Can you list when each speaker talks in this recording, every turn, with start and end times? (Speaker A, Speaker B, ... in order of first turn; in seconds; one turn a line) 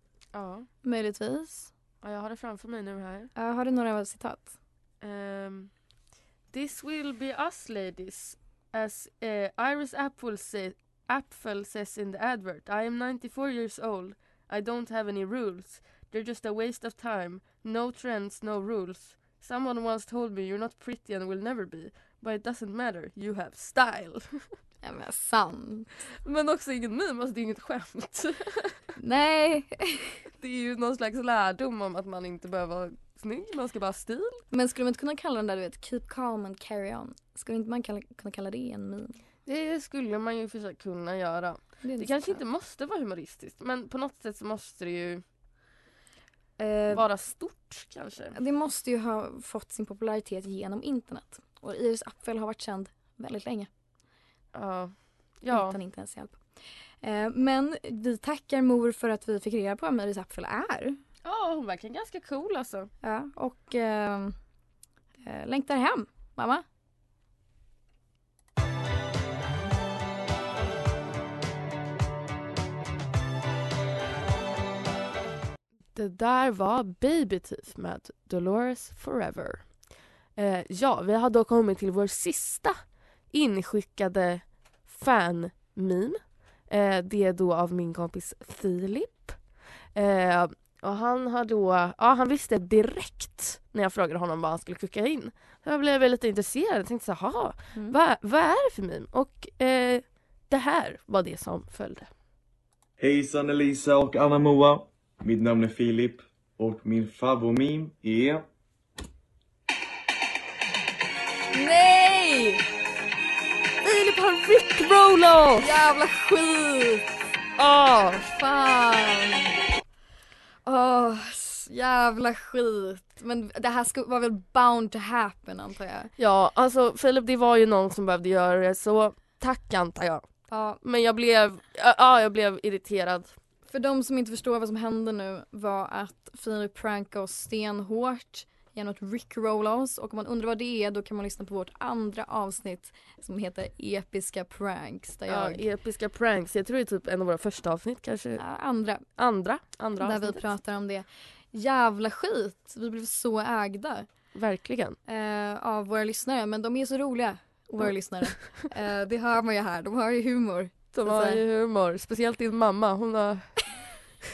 Speaker A: 0.3-0.7
Speaker B: 0.8-1.7
Speaker A: 2.0-3.3
Speaker B: 3.4-4.5
Speaker A: 5.0-5.8
Speaker A: 6.5-24.6
Speaker B: 24.8-26.0
Speaker A: 26.2-28.8
Speaker B: 29.0-30.2
Speaker A: 30.4-34.4
Speaker B: 34.5-39.2
Speaker A: 39.5-45.2
Speaker B: 41.8-42.4
Speaker B: 46.6-47.0
Speaker A: 46.9-48.4
Speaker B: 48.4-53.7
Speaker A: 54.5-55.8
Speaker B: 55.5-56.5
Speaker B: 57.0-61.0
Speaker A: 61.2-62.9
Speaker B: 63.0-64.4
Speaker B: 65.2-66.6
Speaker A: 76.0-102.1
Speaker C: 103.0-108.5
Speaker B: 111.5-112.6
Speaker A: 113.8-115.7
Speaker B: 115.6-117.1
Speaker A: 117.6-118.3
Speaker B: 118.3-119.5
Speaker B: 120.7-126.1
Speaker A: 126.2-130.3
Speaker B: 130.5-130.8
Speaker A: 130.8-133.4
Speaker B: 133.7-145.6
Speaker A: 145.3-148.4
Speaker B: 148.4-149.1
Speaker A: 149.2-150.5
Speaker B: 150.0-154.1
Speaker A: 154.3-155.0
Speaker B: 155.1-161.4
Speaker A: 160.9-164.0